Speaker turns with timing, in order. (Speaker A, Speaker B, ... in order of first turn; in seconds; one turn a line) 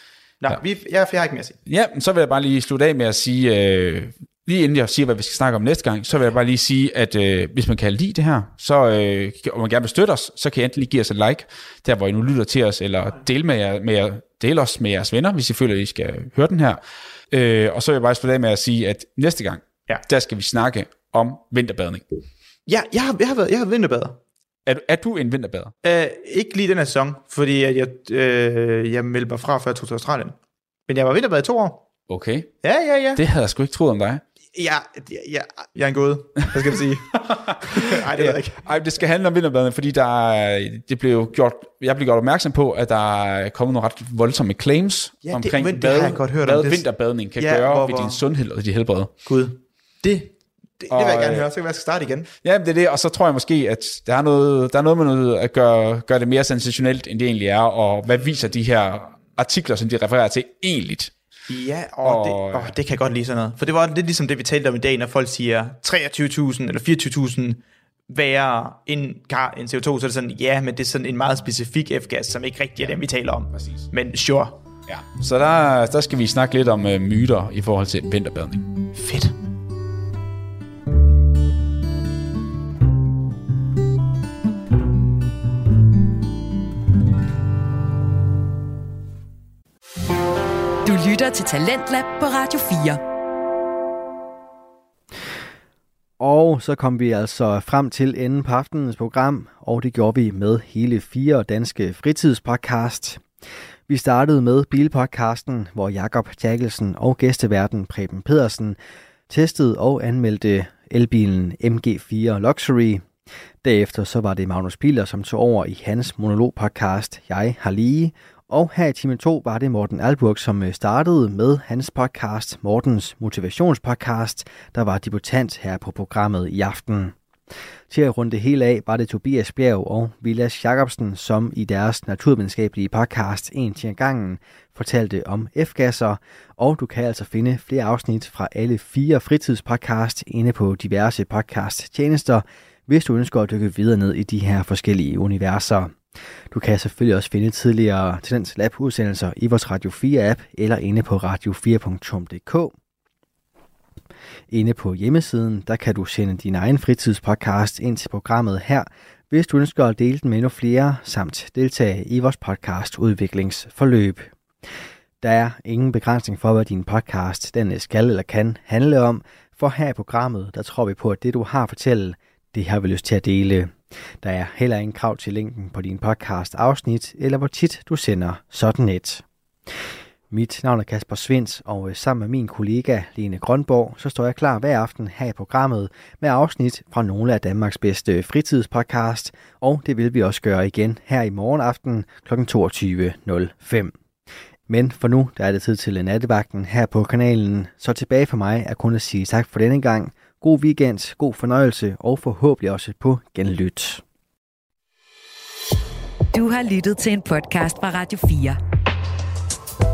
Speaker A: 0.4-1.6
Speaker B: 1.7-22.1
Speaker A: 22.7-24.2
Speaker B: 24.7-25.7
Speaker A: 25.8-30.4
Speaker A: 30.9-31.8
Speaker B: 32.1-32.5
Speaker A: 32.6-33.2
Speaker B: 33.2-34.2
Speaker A: 34.5-38.6
Speaker B: 37.1-49.1
Speaker A: 45.2-46.9
Speaker A: 47.4-48.2
Speaker A: 49.3-52.3
Speaker B: 50.9-51.5
Speaker B: 52.4-61.1
Speaker A: 61.5-74.6
Speaker B: 62.0-62.8
Speaker B: 74.9-78.7
Speaker A: 78.9-79.3
Speaker C: 90.8-93.0
Speaker D: 96.2-103.3
Speaker D: 103.9-108.8
Speaker D: 109.3-113.1
Speaker D: 113.6-127.2
Speaker D: 127.9-146.0
Speaker D: 146.5-152.7
Speaker D: 154.5-164.3
Speaker D: 165.2-193.9
Speaker D: 194.7-204.0
Speaker C: 206.3-208.6